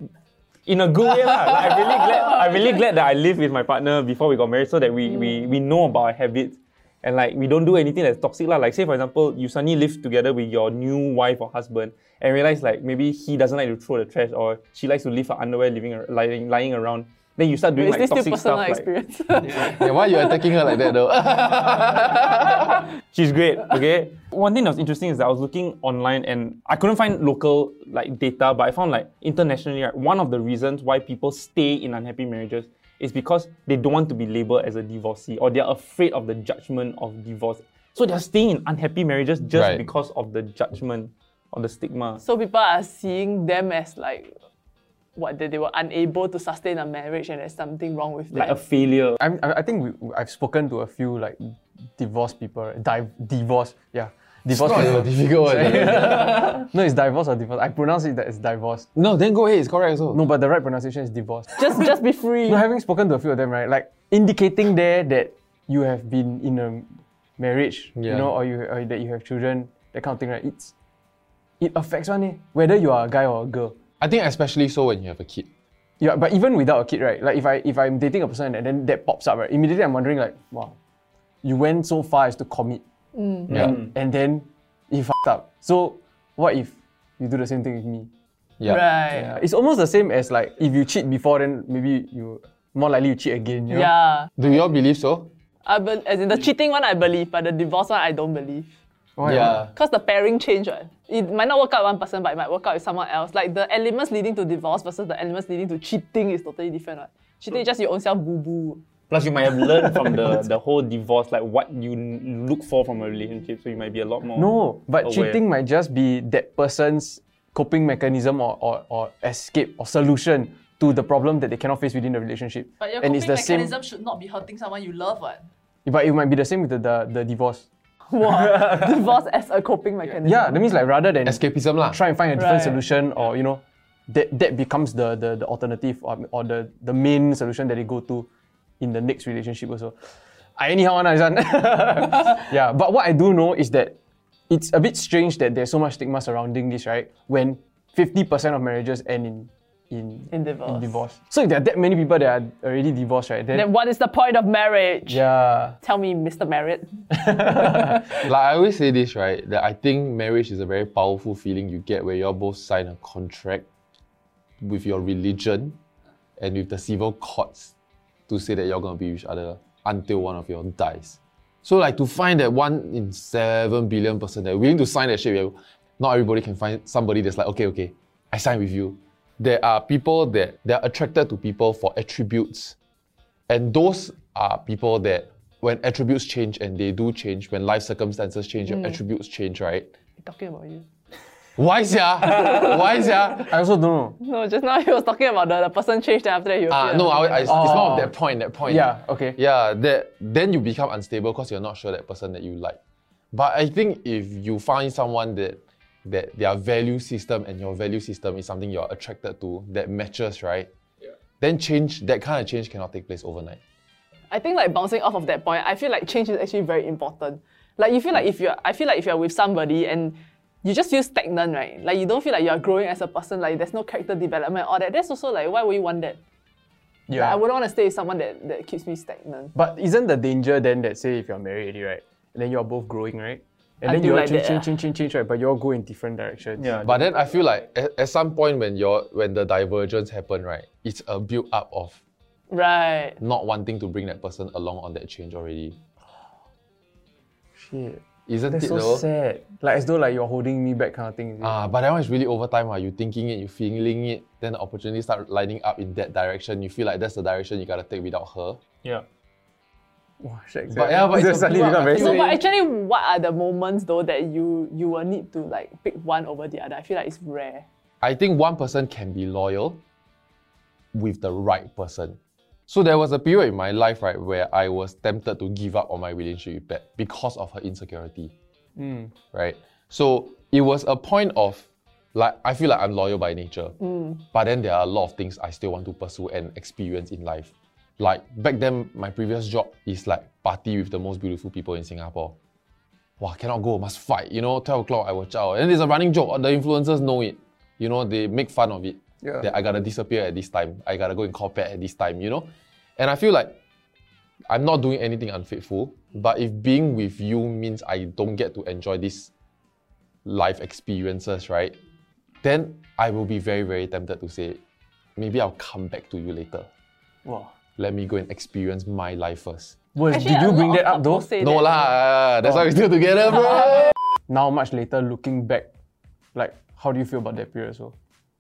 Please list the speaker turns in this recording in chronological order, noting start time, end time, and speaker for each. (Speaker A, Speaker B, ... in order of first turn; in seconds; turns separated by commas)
Speaker A: 0.7-18.9, Speaker B: 17.8-20.8, Speaker C: 19.5-22.8, Speaker A: 23.0-42.2, Speaker C: 39.5-39.8, Speaker B: 42.2-44.4, Speaker B: 45.2-48.6, Speaker A: 48.3-49.2, Speaker D: 49.2-58.9, Speaker C: 54.5-56.6, Speaker C: 59.0-60.2, Speaker D: 60.1-61.8, Speaker B: 61.6-62.6, Speaker D: 62.5-70.7, Speaker C: 68.0-68.3, Speaker D: 71.6-73.8, Speaker C: 74.0-75.5, Speaker D: 76.0-80.7, Speaker D: 81.4-82.8, Speaker B: 83.2-83.5, Speaker D: 83.5-88.1, Speaker B: 88.7-89.3, Speaker D: 89.1-93.9, Speaker B: 93.7-94.3, Speaker C: 94.4-95.3, Speaker B: 95.7-98.7, Speaker D: 99.2-99.6, Speaker C: 99.2-99.7, Speaker B: 99.7-108.8, Speaker A: 109.1-115.4, Speaker D: 114.4-123.7, Speaker B: 122.8-125.5, Speaker D: 125.8-127.7, Speaker B: 128.1-130.6, Speaker D: 130.2-138.3, Speaker C: 131.2-132.0, Speaker B: 132.4-132.8, Speaker D: 138.8-140.0, Speaker D: 140.6-144.0, Speaker D: 144.5-153.7, Speaker B: 150.3-151.0, Speaker B: 153.5-155.2, Speaker D: 155.1-155.8, Speaker B: 155.8-157.0, Speaker D: 157.2-158.1, Speaker C: 158.1-163.7, Speaker C: 164.6-165.8, Speaker C: 166.4-167.7, Speaker C: 168.3-182.8, Speaker C: 183.5-189.9, Speaker B: 190.2-190.9, Speaker C: 191.6-193.6, Speaker D: 193.5-194.2, Speaker B: 194.2-198.0, Speaker C: 196.7-202.8, Speaker D: 197.5-198.1, Speaker D: 198.7-199.4, Speaker C: 203.3-210.7, Speaker C: 211.4-213.6, Speaker B: 214.3-226.2, Speaker D: 227.1-227.4, Speaker B: 227.1-229.5, Speaker D: 229.6-236.7, Speaker B: 233.8-234.7, Speaker A: 236.6-237.1, Speaker C: 236.8-242.0, Speaker B: 242.5-243.2, Speaker C: 243.2-245.8, Speaker D: 247.6-251.6, Speaker C: 248.3-249.1, Speaker C: 251.4-258.6, Speaker D: 260.2-262.4, Speaker C: 260.7-262.4, Speaker B: 261.9-267.6, Speaker C: 268.0-269.8, Speaker C: 270.9-272.2, Speaker C: 272.7-278.3, Speaker D: 278.8-279.1, Speaker C: 279.3-283.8, Speaker C: 284.3-292.4, Speaker C: 293.2-303.6, Speaker C: 304.5-309.3, Speaker C: 310.2-311.8, Speaker C: 312.4-314.6, Speaker C: 315.2-316.7, Speaker D: 317.2-317.5, Speaker C: 317.8-319.8, Speaker D: 319.9-321.3, Speaker B: 320.1-321.7, Speaker C: 321.4-323.9, Speaker D: 324.3-325.7, Speaker D: 326.4-327.9